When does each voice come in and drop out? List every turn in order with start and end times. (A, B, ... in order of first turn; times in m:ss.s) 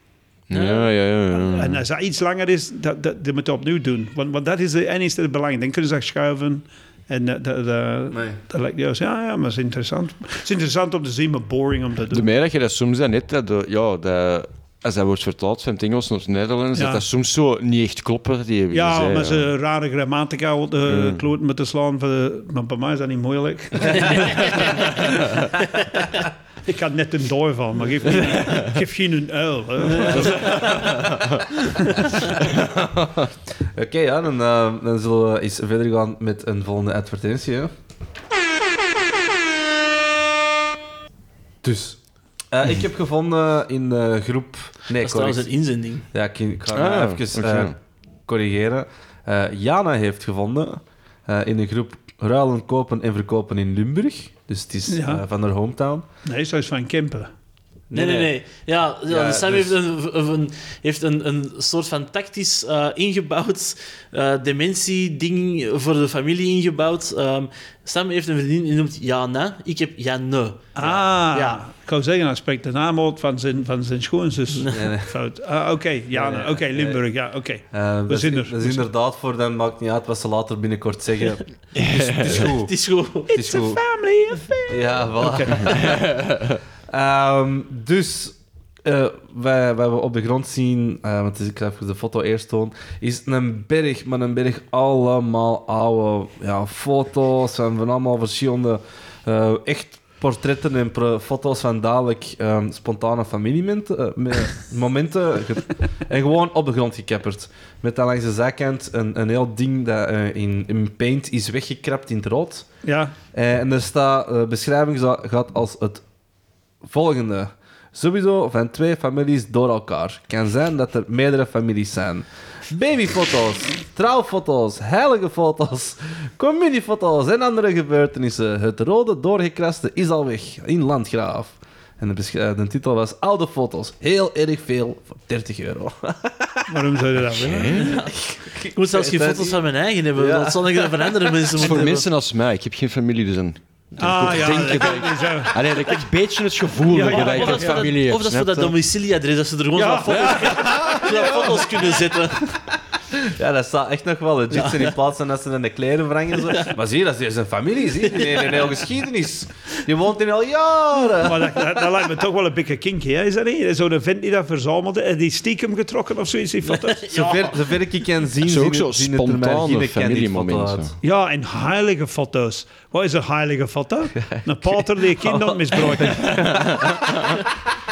0:00.5-0:01.8 A
0:00.5-0:00.9 B
0:01.3-0:12.3 C
0:08.1-0:08.4 D
0:12.1-0:19.5 A
0:16.8-0:17.0 C
0:18.7-0:25.3 C
0:20.9-0:21.2 A
0:24.0-0:24.9 B
0:26.6-0:30.7 C
0:28.2-0:28.7 A
0:30.1-0:31.4 A
0:30.1-0:30.7 B
0:33.8-0:37.7 D
0:41.6-0:42.0 D
0:42.5-0:45.5 D
0:45.0-0:46.1 B
0:46.1-0:56.0 D
0:46.7-0:47.8 A
0:54.9-0:55.2 C
0:56.2-0:57.3 C
0:57.9-0:58.3 D
0:57.9-1:10.7 B
0:59.1-0:59.8 D
1:10.8-1:18.9 C
1:10.8-1:11.1 D
1:11.3-1:11.6 B
1:14.6-1:14.9 B
1:14.7-1:15.1 D
1:16.1-1:17.0 D
1:17.7-1:22.7 D
1:21.8-1:22.5 A
1:22.2-1:23.3 B
1:23.3-1:23.8 D
1:23.3-1:25.7 C
1:24.7-1:26.3 D
1:25.7-1:26.6 A
1:26.9-1:52.7 D
1:52.8-1:53.1 C
1:53.3-1:56.0 D
1:56.8-2:16.6 D
2:16.7-2:17.9 C
2:17.4-2:18.0 A
2:17.8-2:18.1 B
2:18.1-2:19.6 D
2:18.7-2:22.1 B
2:20.2-2:21.3 D
2:21.6-2:28.8 A
2:24.0-2:26.0 C
2:26.9-2:27.9 C
2:27.0-2:32.6 B
2:29.8-2:31.4 C
2:30.1-2:31.6 A
2:33.4-2:41.7 D
2:34.5-2:34.9 B
2:38.1-2:38.7 B
2:41.2-2:47.2 C
2:46.7-2:47.6 B
2:47.1-2:51.0 D
2:48.4-2:50.9 A
2:51.0-2:56.3 C
2:54.2-2:57.1 D
2:56.0-2:57.4 A